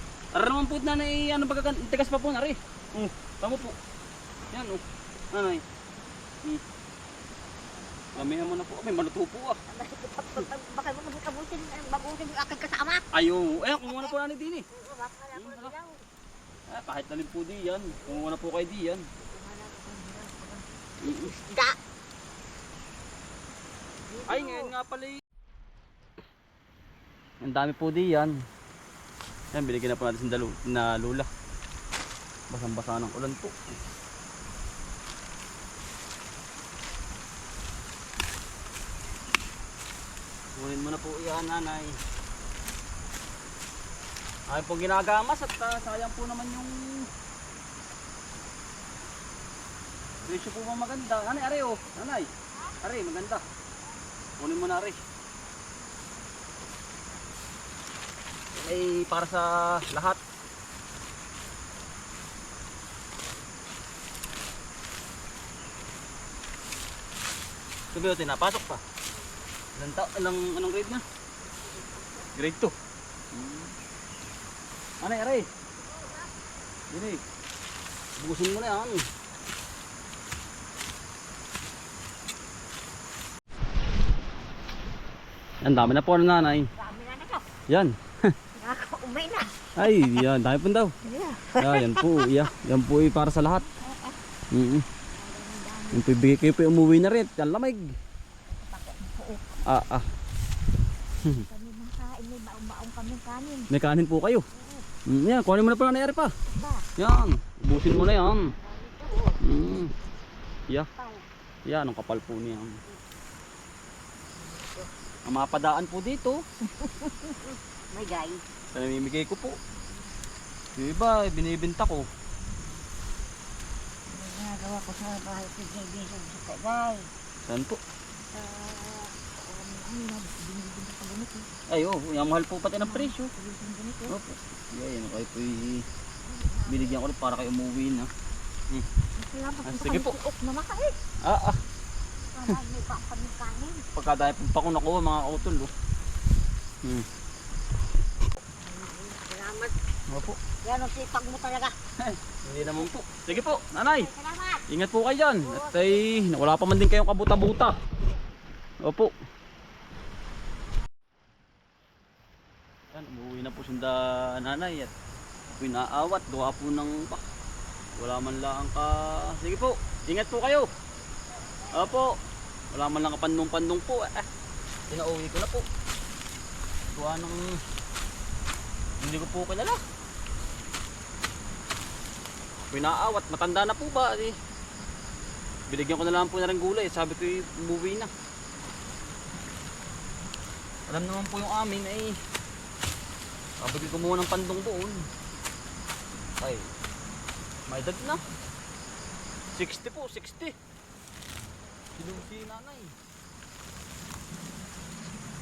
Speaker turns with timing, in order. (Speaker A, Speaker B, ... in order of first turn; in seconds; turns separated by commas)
Speaker A: 0.3-3.8, Speaker A: 4.5-5.6, Speaker B: 8.2-8.5, Speaker A: 8.2-9.6, Speaker B: 9.7-13.1, Speaker A: 13.1-14.7, Speaker B: 14.7-16.1, Speaker A: 15.3-15.7, Speaker A: 16.7-19.1, Speaker B: 19.2-21.8, Speaker A: 21.0-21.4, Speaker B: 24.1-24.7, Speaker A: 24.2-25.2, Speaker A: 27.4-28.4, Speaker A: 29.5-31.3, Speaker A: 32.5-33.5, Speaker A: 40.5-42.0, Speaker A: 44.5-47.1, Speaker A: 50.2-53.4, Speaker A: 54.4-55.0, Speaker A: 58.5-60.2, Speaker A: 67.9-68.8, Speaker A: 69.8-71.0, Speaker A: 72.3-72.7, Speaker A: 73.3-73.7, Speaker A: 75.0-75.5, Speaker B: 76.0-76.2, Speaker A: 76.9-77.2, Speaker A: 78.2-79.0, Speaker A: 85.6-86.7, Speaker B: 86.8-87.5, Speaker A: 87.7-88.3, Speaker B: 88.5-89.7, Speaker A: 89.8-90.9, Speaker B: 91.0-92.3, Speaker A: 91.6-93.7, Speaker B: 93.8-94.2, Speaker A: 94.5-94.8, Speaker B: 95.2-96.1, Speaker A: 95.9-98.0, Speaker B: 98.5-99.5, Speaker A: 99.6-100.1, Speaker A: 101.2-101.5, Speaker B: 101.3-103.7, Speaker A: 103.7-104.5, Speaker B: 104.5-104.8, Speaker A: 105.0-106.3, Speaker B: 106.5-106.8, Speaker A: 107.0-108.5, Speaker B: 107.9-109.4, Speaker A: 109.4-109.9, Speaker B: 111.0-111.2, Speaker A: 111.7-112.8, Speaker B: 114.3-114.9, Speaker A: 115.3-116.4, Speaker B: 116.7-118.4, Speaker A: 118.7-119.5, Speaker A: 120.8-122.1, Speaker B: 122.5-122.7, Speaker B: 124.1-127.1, Speaker A: 127.5-127.8, Speaker B: 128.3-131.5, Speaker A: 131.7-133.3, Speaker B: 132.8-134.2, Speaker A: 134.1-135.8, Speaker B: 136.3-137.0, Speaker A: 136.7-138.1, Speaker B: 139.2-141.0, Speaker A: 139.6-140.2, Speaker A: 141.2-141.6, Speaker B: 142.2-143.8, Speaker A: 143.9-145.7, Speaker B: 148.6-149.7, Speaker A: 150.1-150.4, Speaker B: 150.6-151.7, Speaker A: 152.0-154.1, Speaker B: 153.5-154.6, Speaker A: 154.7-157.8, Speaker B: 155.5-155.7, Speaker A: 158.8-159.1, Speaker A: 162.9-164.9, Speaker A: 165.5-167.2, Speaker A: 168.0-170.7, Speaker A: 171.7-172.1, Speaker A: 172.7-174.3, Speaker A: 174.9-175.7, Speaker A: 176.9-177.6, Speaker A: 179.0-179.8, Speaker A: 182.7-184.3, Speaker A: 185.7-188.1, Speaker A: 190.9-192.2, Speaker A: 193.6-195.1, Speaker A: 196.4-196.7, Speaker A: 197.7-198.2, Speaker A: 199.5-200.5, Speaker A: 201.9-202.9